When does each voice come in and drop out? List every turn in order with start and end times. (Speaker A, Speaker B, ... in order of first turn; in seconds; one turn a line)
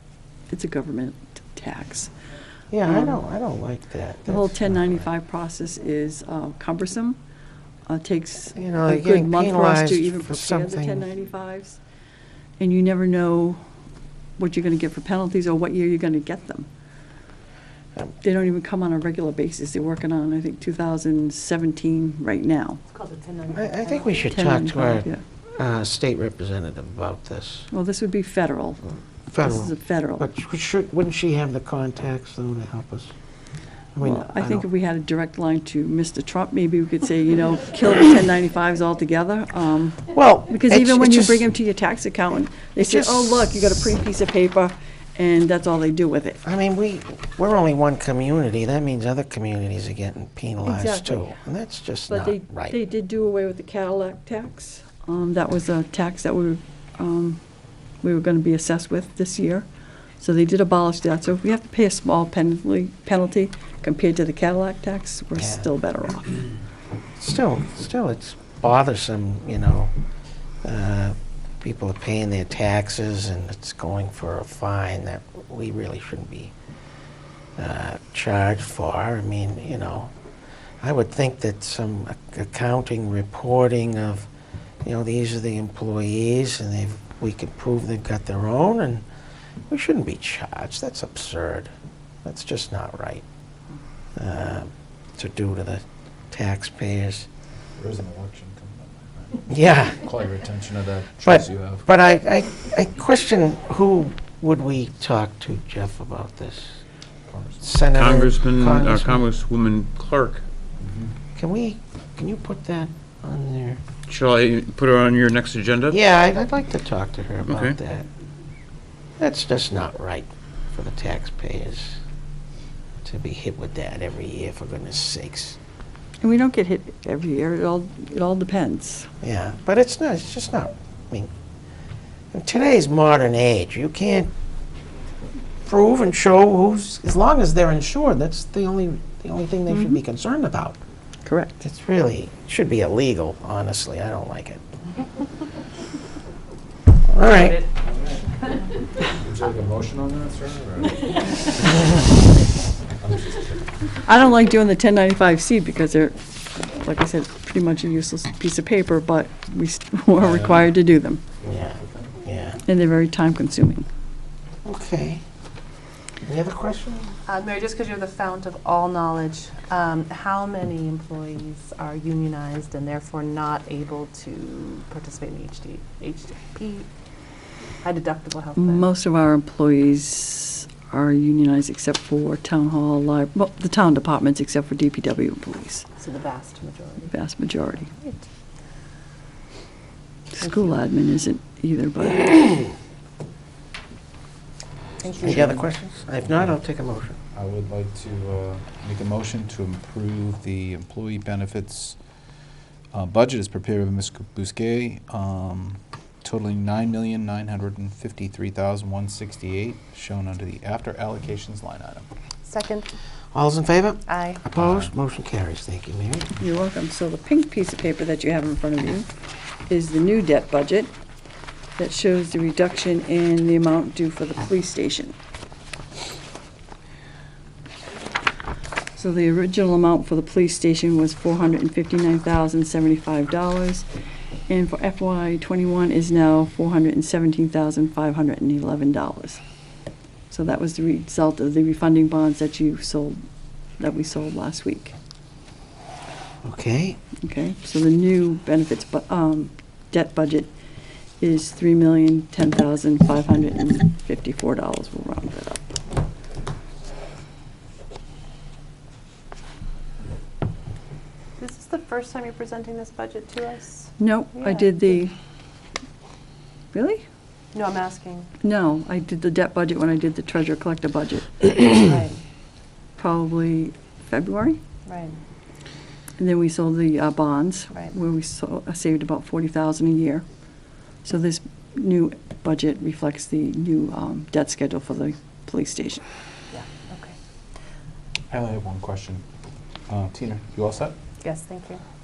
Speaker A: 0.5-2.1
Speaker B: 2.7-5.1
Speaker A: 2.8-3.2
Speaker A: 4.2-7.2
Speaker A: 7.9-11.8
Speaker B: 8.6-11.1
Speaker A: 12.6-13.6
Speaker A: 14.4-16.7
Speaker A: 18.2-22.8
Speaker C: 22.9-24.1
Speaker B: 23.5-27.7
Speaker A: 24.3-25.2
Speaker A: 27.7-28.8
Speaker B: 29.3-33.1
Speaker A: 29.4-30.2
Speaker B: 34.0-34.6
Speaker A: 34.0-46.4
Speaker B: 40.1-41.5
Speaker B: 42.8-43.4
Speaker B: 46.4-52.8
Speaker A: 50.6-51.4
Speaker A: 52.1-57.4
Speaker A: 58.0-59.7
Speaker A: 60.2-66.4
Speaker B: 65.3-65.7
Speaker B: 67.2-69.9
Speaker B: 70.6-76.5
Speaker B: 77.6-80.1
Speaker B: 80.8-84.3
Speaker B: 84.8-89.0
Speaker B: 89.7-91.7
Speaker B: 92.2-93.2
Speaker B: 94.2-97.3
Speaker D: 97.8-101.8
Speaker B: 99.5-100.0
Speaker B: 101.2-106.8
Speaker D: 107.3-107.7
Speaker B: 107.6-109.2
Speaker E: 107.9-110.4
Speaker D: 110.8-111.1
Speaker B: 111.3-113.8
Speaker E: 114.1-116.0
Speaker B: 115.9-118.1
Speaker E: 117.4-117.8
Speaker B: 119.2-122.0
Speaker B: 123.0-125.6
Speaker A: 126.2-129.1
Speaker B: 129.2-131.3
Speaker B: 132.3-134.3
Speaker B: 135.6-140.8
Speaker A: 139.7-140.0
Speaker A: 141.2-141.6
Speaker B: 141.6-144.6
Speaker B: 147.1-147.6
Speaker C: 147.3-147.7
Speaker D: 149.1-152.1
Speaker D: 152.9-153.8
Speaker A: 154.0-161.2
Speaker D: 160.2-160.7
Speaker D: 161.4-162.2
Speaker B: 161.4-162.6
Speaker A: 162.7-163.8
Speaker B: 164.6-165.2
Speaker B: 166.2-167.2
Speaker C: 167.2-176.9
Speaker C: 177.8-178.8
Speaker A: 178.6-185.9
Speaker C: 186.0-187.1
Speaker A: 187.0-187.9
Speaker A: 190.4-192.6
Speaker C: 195.0-195.6
Speaker D: 195.0-195.7
Speaker B: 195.2-197.2
Speaker D: 196.2-196.5
Speaker D: 197.3-202.0
Speaker D: 202.9-212.1
Speaker C: 212.4-212.9
Speaker B: 213.3-216.3
Speaker C: 214.1-214.4
Speaker D: 214.6-214.9
Speaker A: 216.4-219.1
Speaker A: 219.7-220.9
Speaker A: 221.8-225.1
Speaker A: 228.9-233.8
Speaker A: 234.5-239.4
Speaker A: 240.3-243.2
Speaker A: 243.8-244.9
Speaker B: 246.4-247.0
Speaker A: 247.2-250.5
Speaker A: 251.2-255.7
Speaker C: 261.4-264.7
Speaker A: 264.0-265.1
Speaker A: 266.7-267.0
Speaker C: 267.5-268.3
Speaker A: 268.4-271.7
Speaker C: 271.8-272.2
Speaker A: 273.0-274.6
Speaker C: 274.9-275.2
Speaker A: 276.2-280.2
Speaker A: 281.0-286.0
Speaker C: 286.5-287.1
Speaker D: 288.3-289.2
Speaker D: 289.9-290.9
Speaker C: 291.2-291.8